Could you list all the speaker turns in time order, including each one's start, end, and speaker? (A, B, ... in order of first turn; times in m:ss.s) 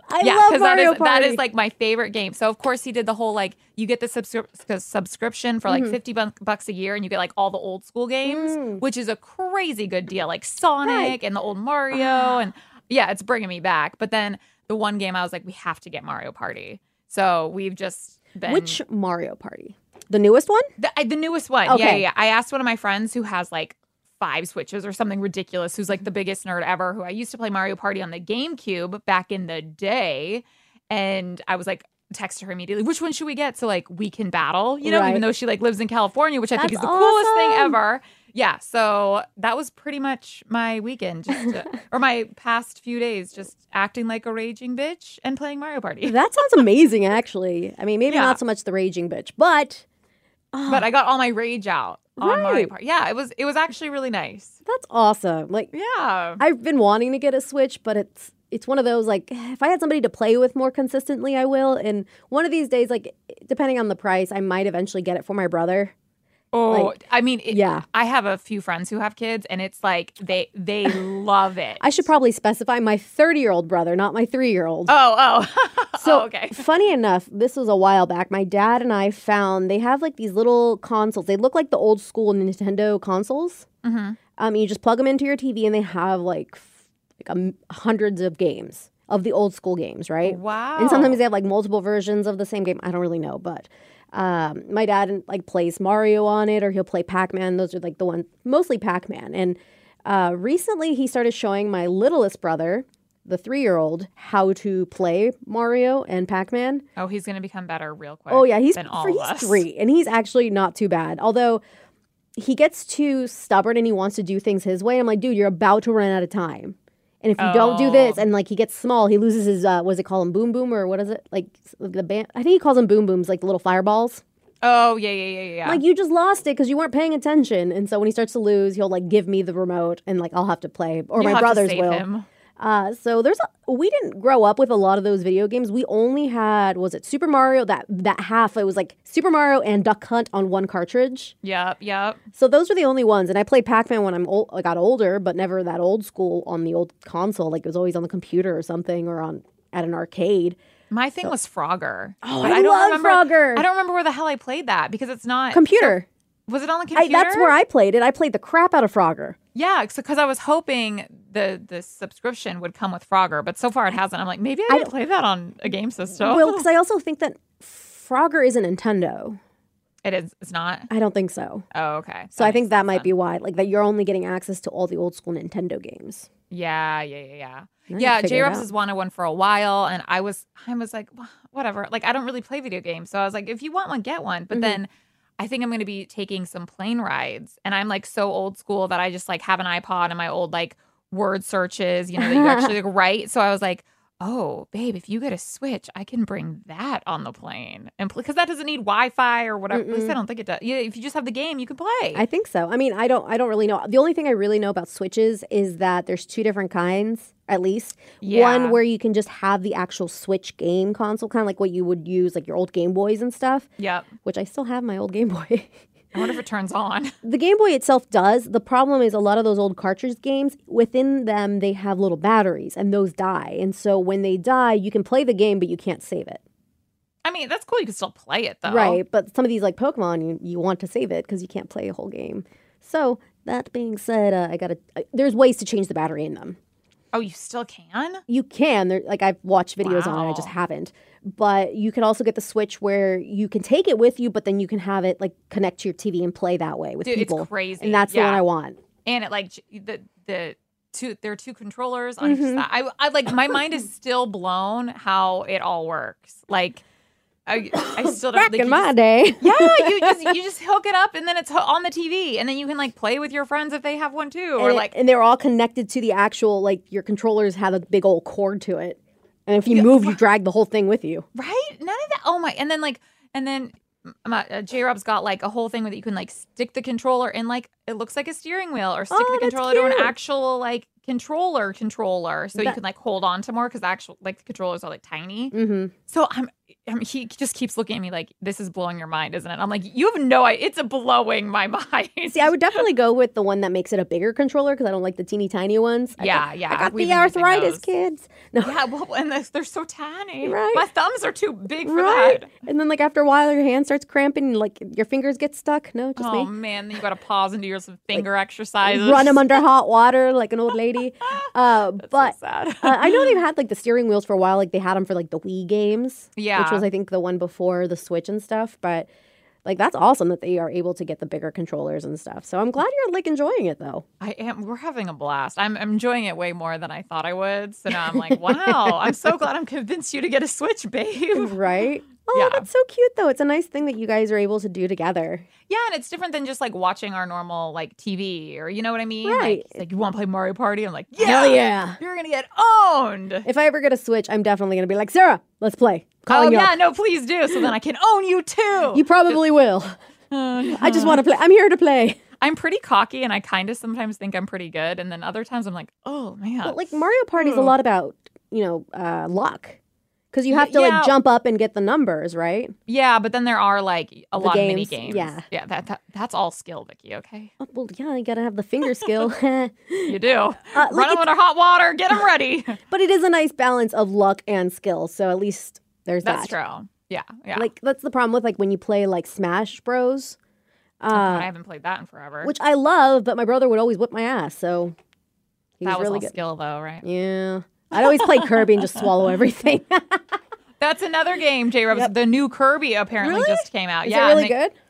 0:00.1-0:01.4 A
0:00.2-0:18.8 B
0:05.7-0:06.0 A
0:08.2-0:08.8 A
0:10.8-0:11.2 A
0:11.9-0:12.3 A
0:18.5-0:20.7 A
0:20.8-0:46.6 B
0:21.7-0:22.0 A
0:34.8-0:35.2 A
0:36.6-0:37.8 A
0:46.0-0:49.8 A
0:48.1-0:48.4 B
0:50.5-0:50.9 A
0:50.7-0:54.6 B
0:52.2-0:52.7 A
0:54.6-0:55.7 A
0:55.7-0:56.4 B
0:56.4-1:05.9 A
1:06.5-1:11.9 B
1:06.7-1:07.0 A
1:07.5-1:07.8 A
1:11.8-1:14.9 A
1:14.9-1:16.7 B
1:16.0-1:23.7 A
1:23.8-1:24.2 B
1:24.4-1:46.8 A
1:30.2-1:31.2 B
1:47.0-1:49.6 B
1:48.3-1:51.6 A
1:52.4-2:04.2 A
1:57.4-1:58.2 B
2:04.6-2:05.8 B
2:05.6-2:12.1 A
2:11.2-2:12.3 B
2:12.6-2:21.3 A
2:21.4-2:22.2 B
2:22.4-2:30.6 A
2:30.9-2:36.0 B
2:32.2-2:33.6 A
2:35.5-2:36.1 A
2:36.5-2:37.6 B
2:36.9-2:39.4 A
2:39.5-2:46.7 B
2:46.2-2:49.4 A
2:50.0-2:50.9 B
2:50.9-2:51.7 A
2:51.7-2:53.1 B
2:52.4-2:56.3 A
2:56.5-3:22.2 B
2:57.9-2:58.7 A
3:04.5-3:04.8 A
3:12.2-3:12.8 A
3:19.7-3:20.2 A
3:22.1-3:33.7 A
3:28.2-3:28.8 B
3:33.8-3:34.1 B
3:34.2-3:35.7 A
3:36.1-3:37.2 B
3:37.2-3:46.4 A
3:47.2-3:49.0 B
3:48.7-3:56.6 A
3:57.1-3:58.2 B
3:58.3-4:08.8 A
3:59.8-4:00.5 B
4:07.0-4:08.4 B
4:09.0-4:16.8 B
4:12.2-4:12.6 A
4:17.5-4:18.9 B
4:17.8-4:20.4 A
4:19.4-4:24.9 B
4:24.6-4:31.3 A
4:29.7-4:30.2 B
4:31.4-4:45.5 B
4:39.1-4:40.1 A
4:45.5-4:45.9 A
4:46.1-4:52.8 B
4:52.3-4:58.8 A
4:56.2-4:57.9 B
4:58.6-5:02.5 B
5:00.4-5:00.9 A
5:01.8-5:06.5 A
5:06.2-5:09.6 B
5:08.8-5:19.1 A
5:11.4-5:13.4 B
5:16.4-5:16.9 B
5:19.6-5:24.0 A
5:24.2-5:31.6 B
5:28.1-5:28.9 A
5:31.4-5:35.5 A
5:32.3-5:32.7 B
5:35.7-5:43.5 B
5:39.2-5:39.8 A
5:41.2-5:42.0 A
5:43.4-5:46.8 A
5:46.3-5:49.4 B
5:48.9-5:49.9 A
5:50.3-5:51.2 B
5:50.6-5:52.2 A
5:52.4-5:57.8 B
5:56.6-5:59.8 A
6:00.3-6:02.8 A
6:00.5-6:01.2 B
6:02.9-6:07.5 B
6:04.4-6:05.4 A
6:07.6-6:10.2 A
6:09.0-6:09.3 B
6:10.1-6:12.8 B
6:10.7-6:11.3 A
6:12.9-6:16.6 A
6:16.2-6:17.7 B
6:17.5-6:20.4 A
6:21.0-6:21.5 A
6:21.1-6:22.5 B
6:22.4-6:25.0 A
6:25.8-6:26.4 A
6:25.8-6:27.0 B
6:27.0-6:30.4 A
6:27.9-6:29.1 B
6:30.8-6:34.5 B
6:33.2-6:34.7 A